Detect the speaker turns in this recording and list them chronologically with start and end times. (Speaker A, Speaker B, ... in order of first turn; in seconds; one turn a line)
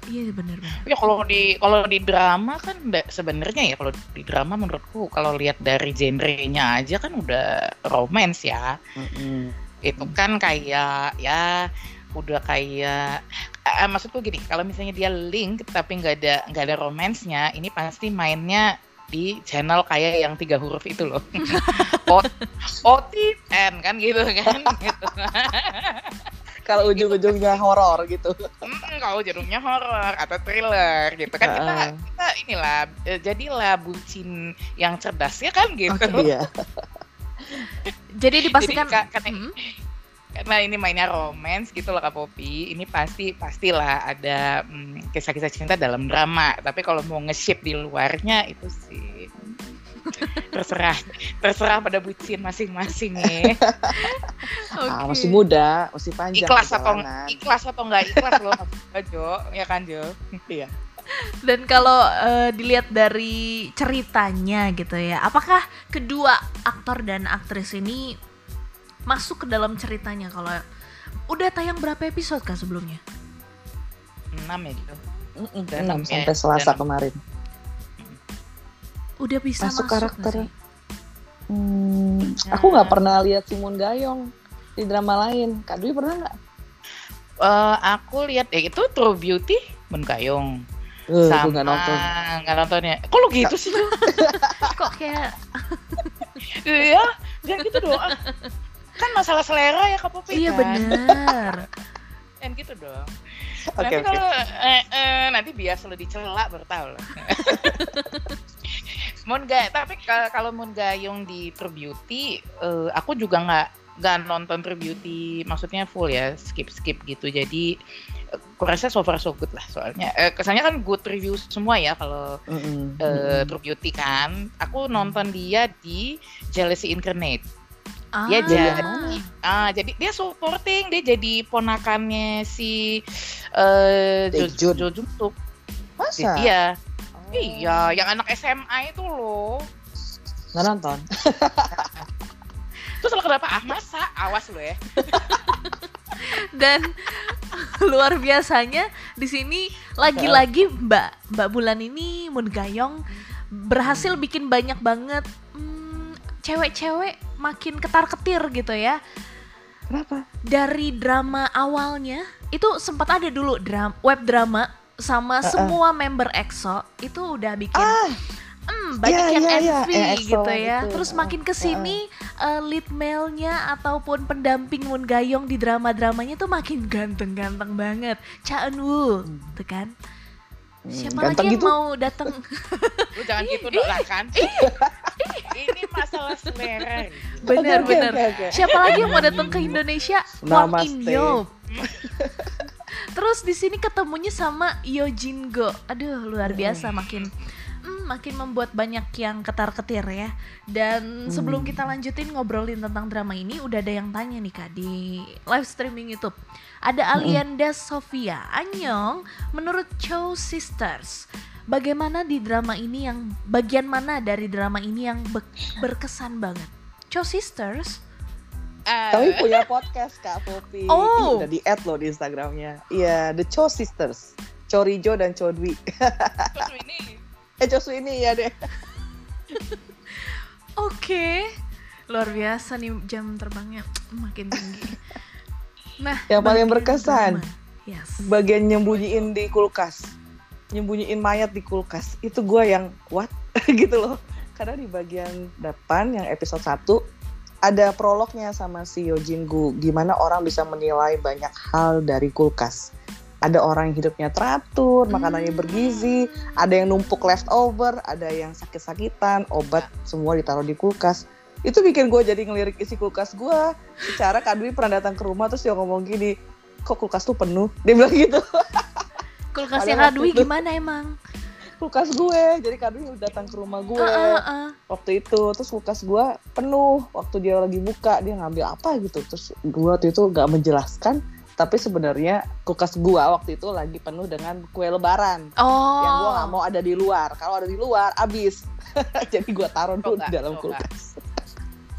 Speaker A: 0.1-0.8
Speaker B: 0.8-8.8
Speaker C: 9.0-10.1
Speaker B: 9.8-11.6
Speaker B: 12.2-13.1
Speaker B: 13.7-26.2
Speaker A: 21.4-22.5
Speaker C: 24.5-25.2
Speaker C: 26.6-28.4
Speaker B: 26.8-27.6
Speaker B: 28.6-36.3
Speaker C: 31.4-32.0
Speaker A: 35.9-36.2
Speaker C: 36.1-36.5
Speaker A: 38.2-39.5
Speaker B: 38.5-39.4
Speaker B: 40.4-49.5
Speaker A: 50.1-50.3
Speaker B: 50.4-53.6
Speaker C: 53.2-54.1
Speaker A: 53.9-55.4
Speaker C: 54.9-57.4
Speaker B: 56.4-60.1
Speaker C: 58.0-58.6
Speaker A: 61.4-68.2
Speaker A: 69.1-70.6
Speaker A: 71.3-73.0
Speaker B: 74.3-75.0
Speaker C: 75.4-77.2
Speaker B: 75.7-76.8
Speaker A: 79.2-80.5
Speaker C: 79.6-80.5
Speaker C: 81.5-84.2
Speaker B: 82.4-83.0
Speaker C: 84.8-86.3
Speaker B: 87.4-90.6
Speaker C: 91.1-92.0
Speaker B: 91.2-94.0
Speaker A: 93.9-96.2
Speaker C: 94.1-94.7
Speaker B: 96.6-98.2
Speaker A: 97.8-98.5
Speaker B: 99.0-100.8
Speaker A: 100.3-101.7
Speaker C: 100.7-101.2
Speaker B: 102.4-103.1
Speaker C: 103.7-104.2
Speaker B: 103.8-107.8
Speaker A: 107.6-108.4
Speaker B: 108.7-117.7
Speaker B: 118.6-122.3
Speaker C: 122.5-123.5
Speaker B: 123.0-127.4
Speaker C: 124.9-125.2
Speaker A: 128.2-129.3
Speaker B: 128.3-135.3
Speaker C: 128.5-129.2
Speaker C: 134.3-134.9
Speaker C: 136.0-136.5
Speaker B: 136.2-136.7
Speaker C: 137.2-138.0
Speaker B: 137.3-139.7
Speaker C: 140.5-141.9
Speaker B: 141.7-142.1
Speaker B: 143.0-145.5
Speaker A: 145.3-159.0
Speaker C: 150.1-150.4
Speaker C: 153.8-154.2
Speaker C: 159.9-160.2
Speaker A: 160.5-168.0
Speaker C: 165.4-165.8
Speaker C: 167.7-168.2
Speaker A: 168.7-179.9
Speaker C: 169.0-172.0
Speaker C: 179.2-179.5
Speaker C: 180.8-181.7
Speaker A: 180.9-185.8
Speaker B: 183.2-184.4
Speaker C: 184.6-185.1
Speaker B: 185.5-189.7
Speaker C: 187.4-189.8
Speaker A: 187.4-191.5
Speaker C: 190.4-192.5
Speaker A: 192.9-197.3
Speaker C: 196.4-196.9
Speaker B: 196.9-197.3
Speaker A: 197.8-218.0
Speaker C: 201.3-201.9
Speaker C: 207.2-207.4
Speaker B: 218.9-219.7
Speaker C: 219.1-226.7
Speaker A: 220.9-221.5
Speaker B: 226.5-227.2
Speaker C: 227.6-228.5
Speaker A: 229.5-231.5
Speaker A: 232.1-235.0
Speaker A: 236.0-238.3
Speaker C: 236.3-237.4
Speaker C: 238.2-240.1
Speaker B: 238.8-239.3
Speaker C: 240.7-247.0
Speaker C: 247.7-252.9
Speaker C: 253.4-266.3
Speaker A: 255.1-256.2
Speaker C: 266.9-269.1
Speaker A: 269.5-271.1
Speaker C: 269.8-270.5
Speaker C: 271.8-291.4
Speaker A: 274.0-274.8
Speaker A: 285.6-286.6
Speaker B: 290.0-290.8